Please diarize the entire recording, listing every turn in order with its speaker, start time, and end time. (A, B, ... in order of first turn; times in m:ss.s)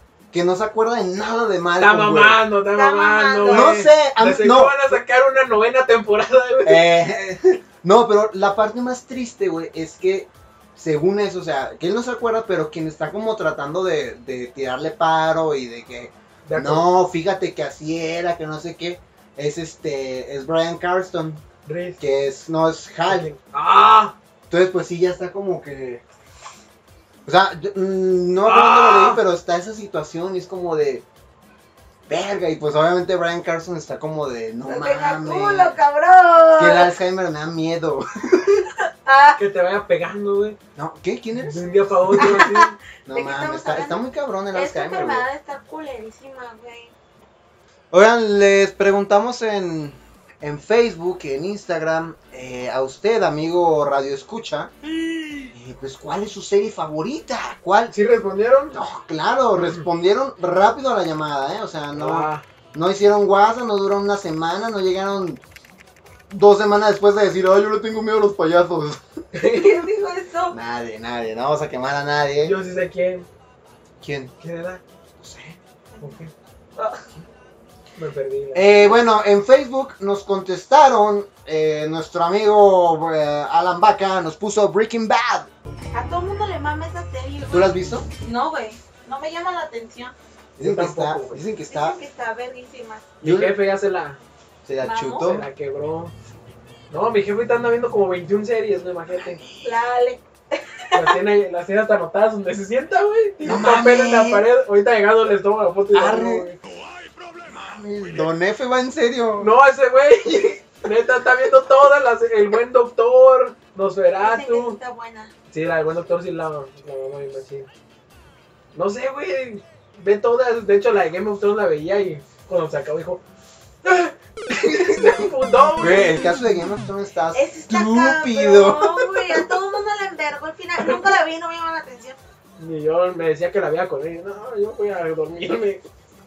0:00.3-0:02.4 A
0:01.8-0:06.9 B
0:02.7-0:03.7 C
0:03.5-0:04.9 A
0:06.6-0:21.4 A
0:16.4-0:16.9 B
0:21.6-0:22.0 B
0:22.0-0:23.3 A
0:23.1-0:24.1 B
0:24.5-0:26.0 A
0:27.2-0:31.0 A
0:28.4-0:29.2 B
0:32.1-0:35.8 A
0:34.6-0:36.9 C
0:36.6-0:38.7 A
0:39.0-0:39.4 C
0:39.4-0:40.6 B
0:40.8-0:42.4 A
0:41.3-0:42.8 B
0:42.2-0:46.9 C
0:43.0-0:45.3 A
0:47.9-0:54.7 A
0:55.5-0:58.0 A
0:57.9-0:58.8 B
0:58.7-1:05.4 A
1:01.9-1:02.4 B
1:06.3-1:09.0 A
1:09.3-1:09.8 B
1:09.4-1:10.6 C
1:10.5-1:12.6 A
1:12.4-1:13.3 B
1:14.0-1:14.3 A
1:14.4-1:14.8 B
1:15.2-1:15.6 A
1:16.0-1:16.3 B
1:18.0-1:19.0 B
1:18.5-1:25.5 A
1:25.9-1:30.1 C
1:27.5-1:28.1 A
1:30.6-1:32.0 A
1:30.6-1:31.4 B
1:31.7-1:33.1 C
1:33.2-1:34.2 B
1:33.2-1:33.6 A
1:34.6-1:35.5 A
1:34.8-1:35.3 C
1:35.2-1:36.1 B
1:36.9-1:39.4 B
1:39.1-1:39.8 A
1:39.6-1:41.2 C
1:40.9-1:46.6 B
1:43.4-1:44.5 A
1:45.9-1:46.5 A
1:47.3-1:49.5 A
1:49.4-1:54.8 B
1:54.2-1:55.3 C
1:55.5-1:57.7 B
1:58.7-2:03.2 B
2:03.8-2:06.4 B
2:04.6-2:05.1 A
2:05.8-2:09.5 A
2:07.3-2:12.2 C
2:12.6-2:15.8 B